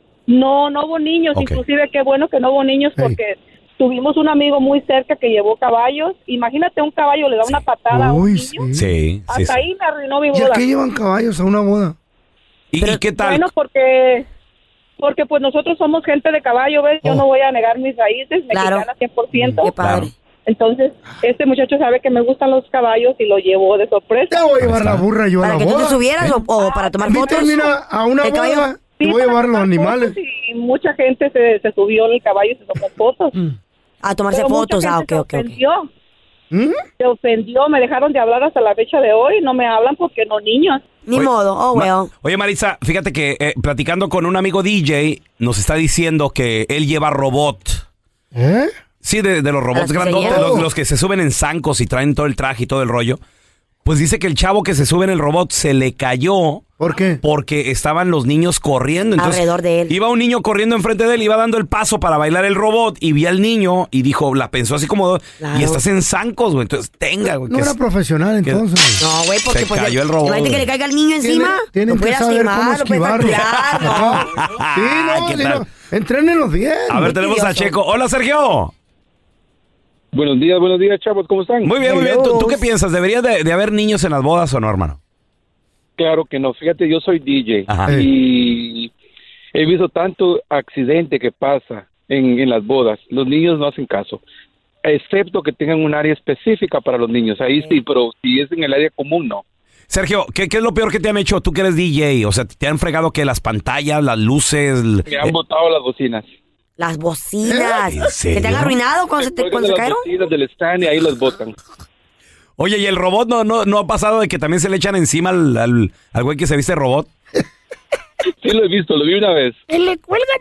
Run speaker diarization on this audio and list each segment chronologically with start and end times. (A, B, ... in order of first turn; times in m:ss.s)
0:00.3-0:08.7 A
0:01.3-0:01.6 B
0:07.9-0:08.8 C
0:08.7-0:09.6 B
0:09.3-0:10.6 A
0:10.3-0:11.9 C
0:12.7-0:13.5 B
0:13.1-0:14.3 A
0:15.0-0:19.7 A
0:18.5-0:18.9 D
0:19.6-0:20.1 D
0:19.8-0:20.1 B
0:20.4-0:24.4 A
0:24.3-0:26.0 C
0:24.6-0:25.0 B
0:25.4-0:27.6 D
0:26.6-0:27.6 A
0:27.0-0:30.1 C
0:28.2-0:28.7 D
0:29.0-0:33.3 A
0:34.0-0:35.5 D
0:34.3-0:35.9 A
0:36.5-0:36.8 C
0:37.0-0:40.8 A
0:41.0-0:42.1 D
0:41.1-0:47.8 B
0:48.3-0:48.7 C
0:49.0-0:53.2 B
0:49.7-0:50.6 D
0:50.2-0:50.7 C
0:53.8-0:56.6 B
0:56.8-0:57.2 C
0:57.2-1:07.8 B
0:59.2-0:59.9 D
1:05.4-1:05.8 D
1:07.5-1:09.0 C
1:09.0-1:14.3 D
1:09.5-1:10.6 B
1:11.2-1:17.1 C
1:13.2-1:15.6 B
1:16.9-1:18.7 B
1:17.0-1:17.7 D
1:20.1-1:21.7 E
1:21.6-1:25.0 B
1:21.9-1:22.6 D
1:26.0-1:28.9 E
1:27.7-1:27.9 B
1:29.5-1:34.2 E
1:34.8-1:39.4 E
1:39.9-1:45.3 B
1:45.1-1:46.3 E
1:46.8-1:50.0 D
1:47.4-1:47.8 C
1:47.9-1:48.8 B
1:49.2-1:51.6 E
1:52.6-1:57.1 B
1:58.4-1:59.6 E